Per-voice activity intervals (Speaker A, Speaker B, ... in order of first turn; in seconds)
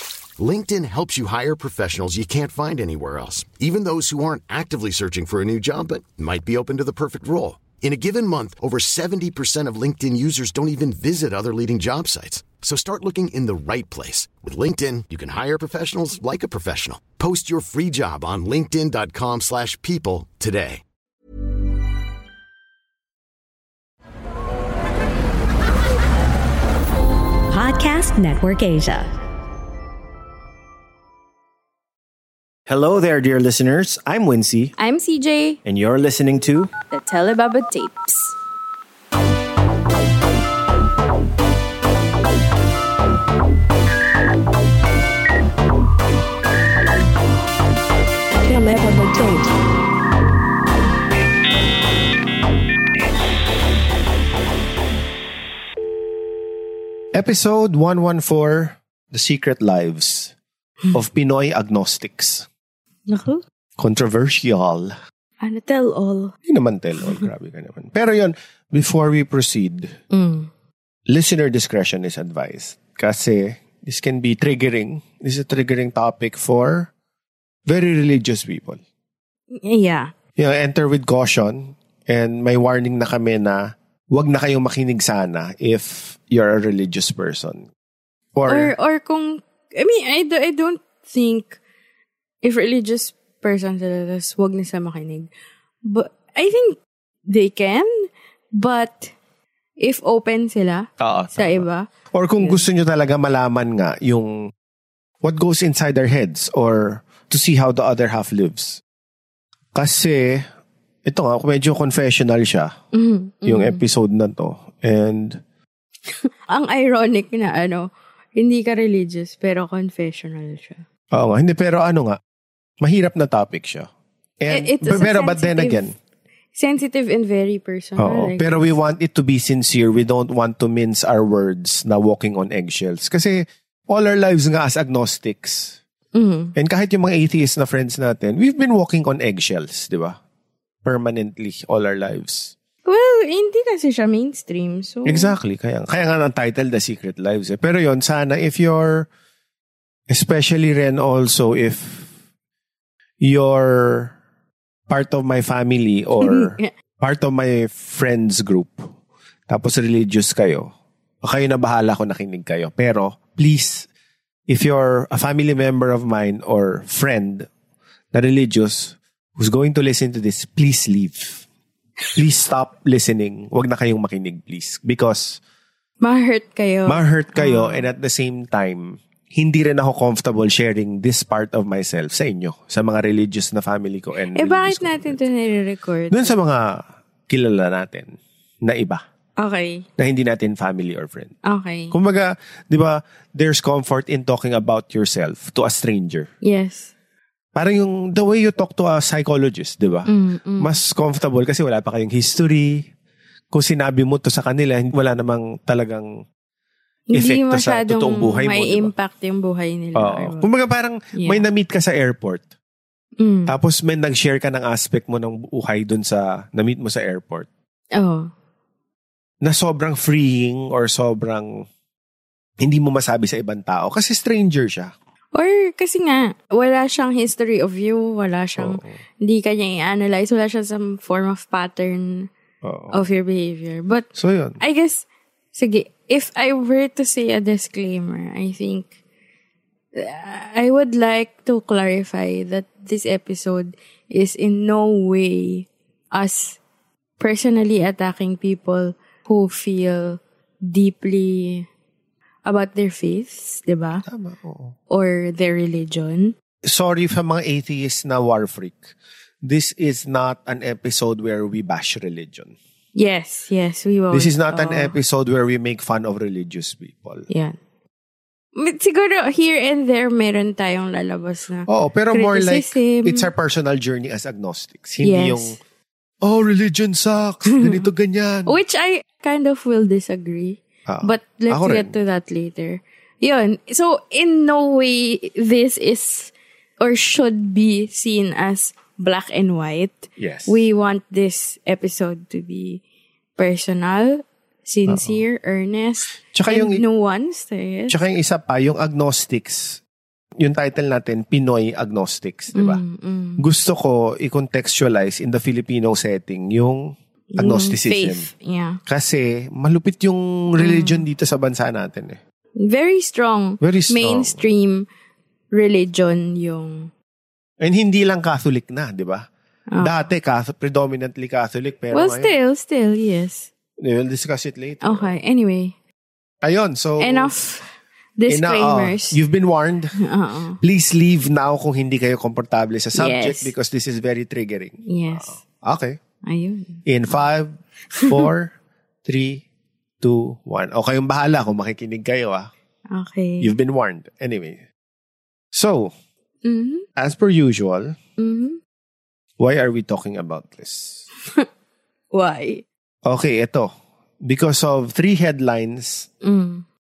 Speaker A: 0.4-20.8
Speaker B: 27.5-29.1, 48.5-49.5
Speaker C: 32.7-34.7, 35.6-36.7, 57.1-60.3, 60.9-62.5, 63.8-64.9, 66.5-70.0, 71.1-76.9, 77.7-78.8, 80.4-87.7, 88.3-88.7, 101.0-104.3, 105.2-108.8, 109.8-110.5, 111.0-112.7, 113.5-115.4, 121.1-122.2, 122.8-123.9, 124.4-126.0, 128.0-135.8, 136.6-140.2, 140.8-142.6, 145.1-149.1, 150.1-152.1, 153.2-154.2, 154.9-158.9, 159.5-160.7, 161.2-163.9, 164.5-167.5, 168.1-171.4, 172.2-175.4, 176.9-185.2, 186.1-189.0, 190.0-191.3, 191.9-196.3, 197.6-202.9, 203.5-206.1, 207.1-208.9, 210.0-212.4, 213.5-217.5, 219.4-221.6, 222.6-224.9, 228.6-229.0, 232.6-233.1, 234.2-234.6, 254.1-254.8, 256.6-262.6, 264.1-267.3, 271.7-275.6, 276.2-278.6, 280.9-281.9, 290.2-290.6, 294.9-295.2, 296.3-296.8, 297.9-299.8, 300.4-302.8, 303.4-308.3, 308.9-312.2, 313.6-314.4, 317.6-319.3, 319.8-322.3, 323.8-325.1, 326.4-327.3, 328.3-330.0, 330.6-336.0, 336.9-338.5, 339.1-339.4, 340.0-342.5, 343.4-344.6, 345.5-345.9, 347.0-348.0, 349.4-351.1, 353.1-353.7, 354.2-356.1
Speaker D: 34.8-35.6, 36.9-38.4, 63.1-63.4, 65.4-66.3, 70.1-70.5, 79.5-80.1, 88.5-91.6, 92.4-95.3, 95.9-99.1, 99.8-101.9, 112.9-113.8, 116.2-120.8, 124.5-125.9, 126.5-128.7, 136.2-136.5, 142.8-145.4, 156.2-156.7, 176.0-177.9, 184.3-186.3, 189.4-189.9, 191.4-191.9, 196.4-196.9, 200.1-200.7, 207.1-210.5, 211.2-211.5, 213.2-213.5, 218.0-218.3, 225.3-232.3, 232.9-234.1, 234.6-238.9, 240.0-246.6, 247.2-251.7, 252.4-254.0, 254.9-256.4, 263.0-264.9, 267.3-267.6, 268.6-273.3, 275.0-275.6, 277.6-277.8, 278.5-292.8, 293.4-298.0, 302.5-303.4, 307.4-308.8, 310.6-311.1, 312.6-314.9, 315.5-316.9, 321.9-323.5, 324.8-325.8, 327.0-329.2, 330.0-330.6, 333.0-333.5, 334.9-335.4, 336.3-336.8, 338.0-338.3, 342.9-343.5, 346.4-346.9, 348.2-348.6, 352.1-352.6, 356.2-356.6